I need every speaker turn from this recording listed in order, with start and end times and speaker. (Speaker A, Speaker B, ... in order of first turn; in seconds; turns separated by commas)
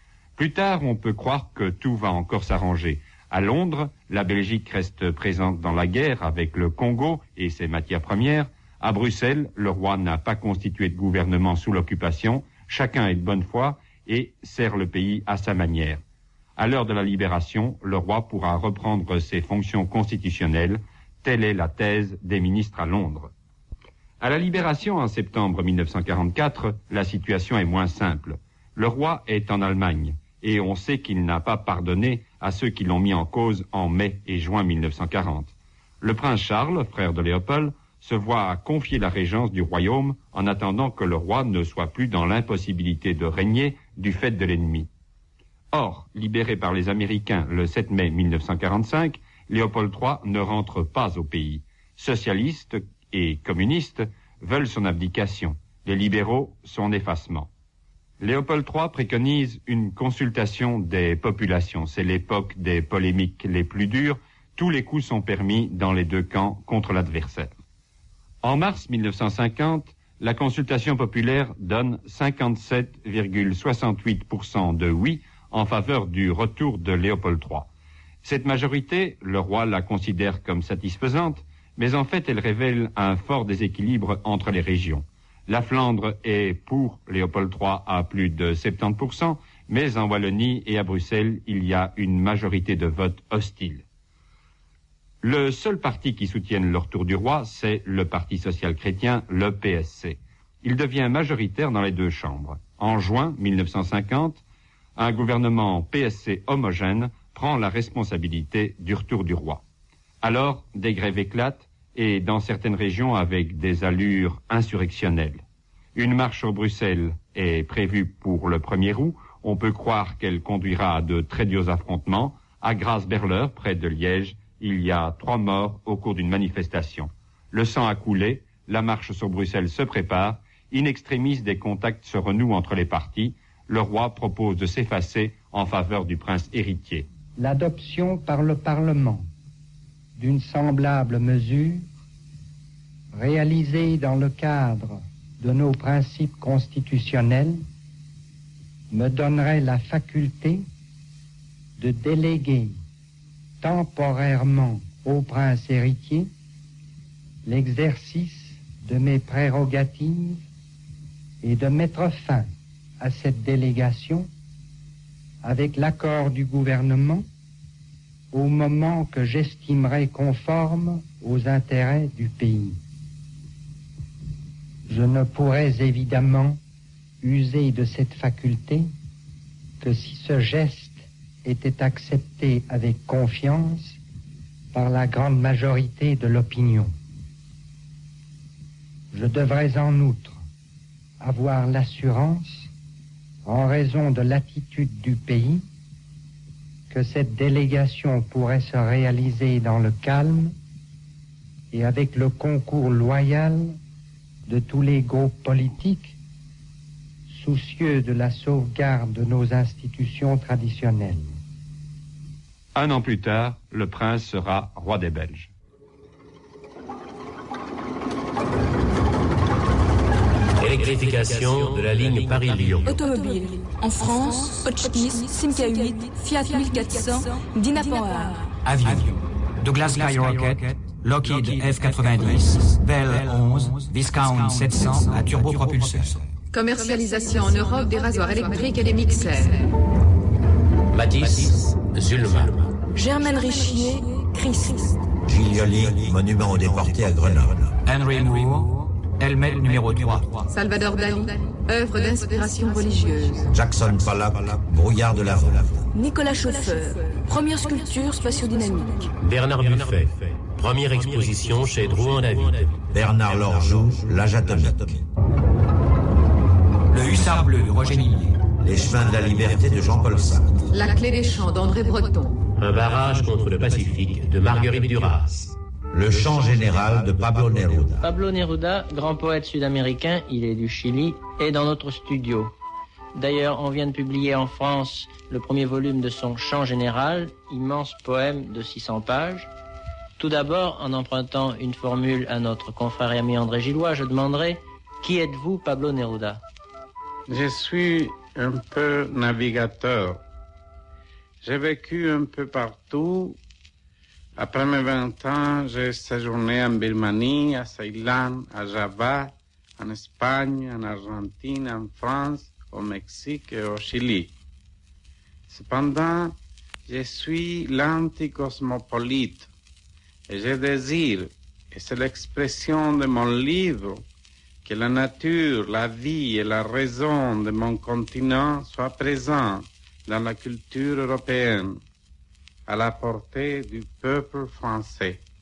Speaker A: 0.3-16.0, Speaker A: 16.6-23.3, Speaker A: 24.2-44.9, Speaker A: 45.7-57.5, Speaker A: 58.2-67.6, Speaker A: 68.4-77.7, Speaker A: 78.2-93.8, Speaker A: 95.2-104.4, Speaker A: 105.0-109.6, Speaker A: 110.2-115.4, Speaker A: 115.9-137.1, Speaker B: 137.4-139.3, Speaker B: 140.2-141.9, Speaker B: 143.1-147.6, Speaker B: 148.9-150.7, Speaker B: 151.8-152.8, Speaker B: 153.6-156.3, Speaker B: 157.4-160.4, Speaker B: 161.4-162.5, Speaker B: 163.0-164.3, Speaker B: 165.4-167.2, Speaker B: 168.3-172.8, Speaker B: 174.9-176.6, Speaker B: 177.2-178.9, Speaker B: 179.8-184.0, Speaker B: 184.7-186.9, Speaker B: 189.1-190.4, Speaker B: 191.2-192.7, Speaker B: 193.4-195.6, Speaker B: 196.9-200.5, Speaker B: 201.7-203.8, Speaker B: 204.5-206.2, Speaker B: 207.3-211.4, Speaker A: 212.7-215.5, Speaker C: 220.6-223.0, Speaker D: 222.8-228.5, Speaker E: 228.6-236.2, Speaker F: 236.5-239.6, Speaker C: 240.9-242.7, Speaker D: 242.9-244.9, Speaker G: 245.2-247.8, Speaker E: 247.8-250.4, Speaker F: 250.5-253.5, Speaker G: 253.5-255.9, Speaker D: 255.9-259.1, Speaker C: 259.2-262.9, Speaker G: 262.9-265.1, Speaker E: 266.9-268.4, Speaker G: 268.6-270.6, Speaker F: 270.7-272.4, Speaker C: 272.6-275.5, Speaker G: 275.9-278.0, Speaker H: 278.0-282.5, Speaker H: 283.1-289.5, Speaker H: 290.2-296.4, Speaker I: 297.3-300.2, Speaker I: 301.4-303.4, Speaker I: 304.4-314.3, Speaker I: 315.5-316.3, Speaker I: 316.9-319.5, Speaker I: 320.3-324.0, Speaker I: 324.6-331.8, Speaker I: 332.7-335.2